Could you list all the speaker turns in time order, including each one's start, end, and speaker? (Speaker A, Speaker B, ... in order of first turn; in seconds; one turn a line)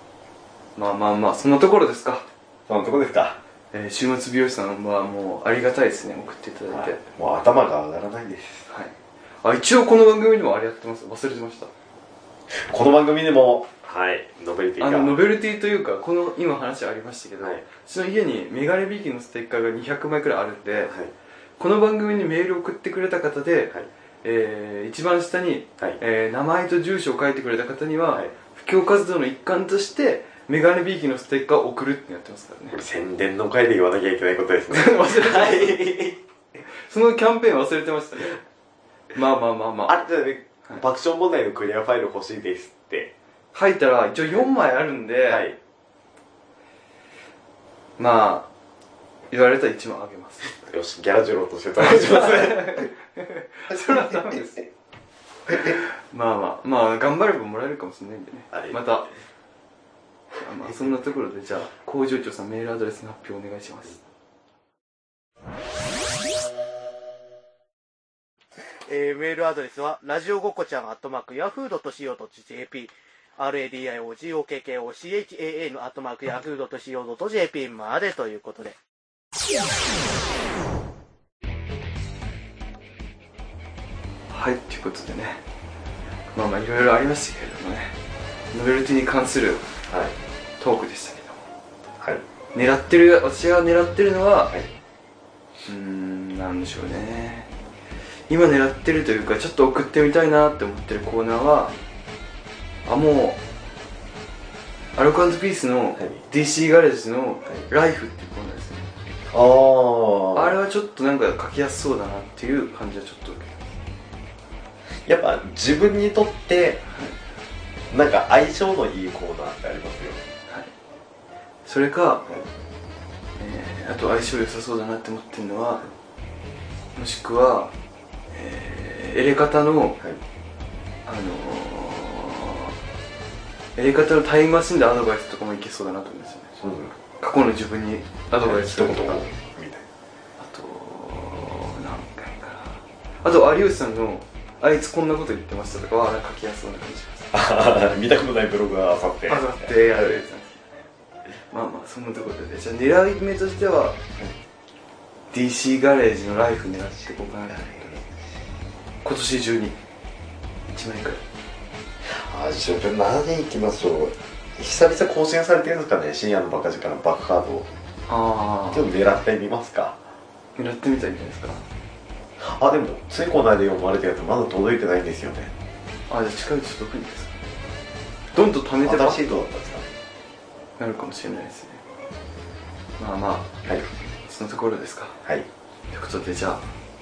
Speaker A: 0.8-2.3
Speaker B: 2.7-3.4
Speaker A: 3.7-7.0
Speaker B: 6.7-8.7
Speaker A: 8.7-11.7
Speaker B: 12.5-15.2
Speaker A: 14.8-20.9
Speaker A: 21.6-32.8
Speaker B: 32.7-36.2
Speaker A: 34.7-35.9
Speaker A: 36.9-38.4
Speaker A: 39.1-40.0
Speaker B: 39.9-43.1
Speaker A: 43.5-45.5
Speaker B: 45.3-45.6
Speaker A: 48.0-48.5
Speaker A: 49.3-50.6
Speaker B: 50.6-52.9
Speaker A: 51.8-54.6
Speaker B: 53.7-54.4
Speaker A: 55.5-59.1
Speaker B: 58.5-58.8
Speaker A: 60.4-64.0
Speaker C: 68.9-78.8
Speaker A: 84.3-85.4
Speaker A: 86.3-88.0
Speaker A: 88.5-89.6
Speaker B: 89.9-90.2
Speaker A: 90.6-91.4
Speaker A: 92.5-94.5
Speaker A: 95.7-97.5
Speaker A: 98.3-101.8
Speaker A: 102.9-103.4
Speaker A: 105.0-108.9
Speaker B: 109.3-110.6
Speaker A: 110.3-113.8
Speaker B: 115.0-116.8
Speaker A: 116.9-117.2
Speaker B: 117.9-120.2
Speaker A: 120.5-120.7
Speaker A: 121.7-122.3
Speaker A: 123.4-125.8
Speaker A: 127.0-127.7
Speaker A: 128.3-130.0
Speaker A: 131.1-132.7
Speaker A: 133.8-136.6
Speaker B: 136.6-136.9
Speaker A: 137.2-139.3
Speaker B: 138.4-139.8
Speaker A: 140.4-147.3
Speaker B: 147.3-150.2
Speaker A: 149.3-150.7
Speaker A: 151.5-154.0
Speaker A: 155.3-158.0
Speaker B: 157.5-158.0
Speaker A: 159.0-159.8
Speaker A: 160.7-161.2
Speaker B: 162.0-167.7
Speaker A: 168.1-168.9
Speaker B: 168.7-170.0
Speaker A: 170.6-171.7
Speaker B: 172.4-175.5
Speaker A: 176.1-177.4
Speaker A: 178.3-179.3
Speaker B: 178.8-179.9
Speaker A: 180.8-181.8
Speaker A: 183.0-183.5
Speaker A: 184.3-185.2
Speaker A: 185.9-186.7